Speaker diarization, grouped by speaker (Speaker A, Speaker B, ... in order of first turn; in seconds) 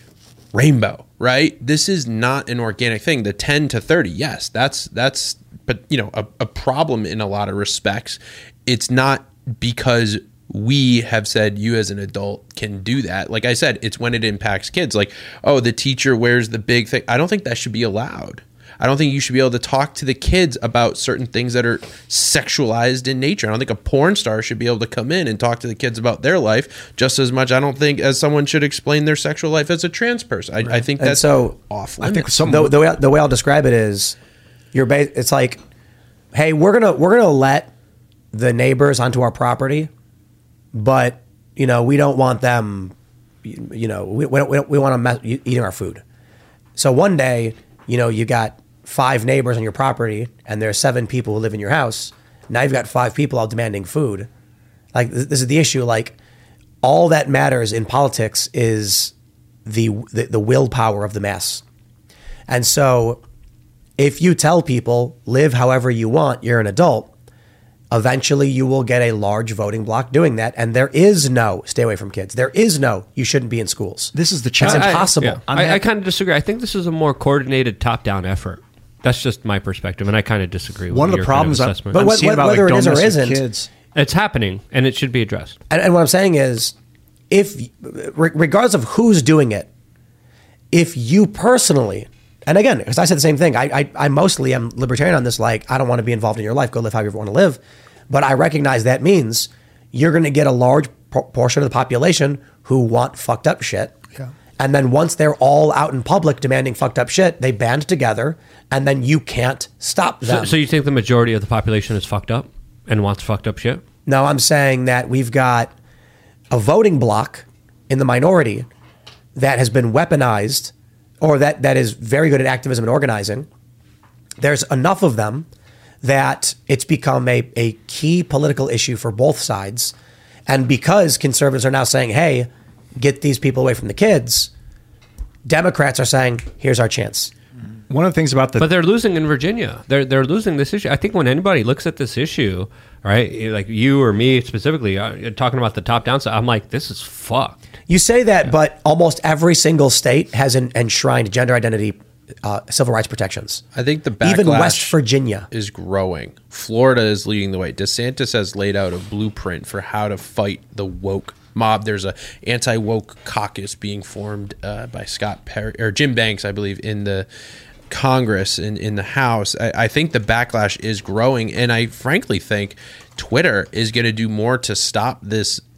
Speaker A: 0.5-32.4, 153.7-154.9, 155.5-167.3, 167.9-175.6
Speaker B: 31.0-31.5, 32.4-34.1, 34.7-35.6, 36.3-37.7, 38.3-39.9, 40.7-46.0, 46.8-54.3, 54.9-56.1, 56.8-59.1, 59.6-61.6, 62.5-63.2, 64.0-67.1, 67.9-75.8, 81.9-83.4, 85.7-86.7, 87.3-89.7, 90.7-104.0, 104.6-110.5, 114.0-115.7, 116.5-118.7, 119.3-123.5, 124.4-125.5, 126.0-129.9, 130.5-134.5, 135.4-137.3, 147.9-153.6, 154.2-155.5
Speaker C: 32.0-32.7, 74.1-75.8, 80.9-83.7, 137.9-138.7
Speaker D: 74.6-82.0, 83.9-85.6, 110.2-113.8, 138.6-147.6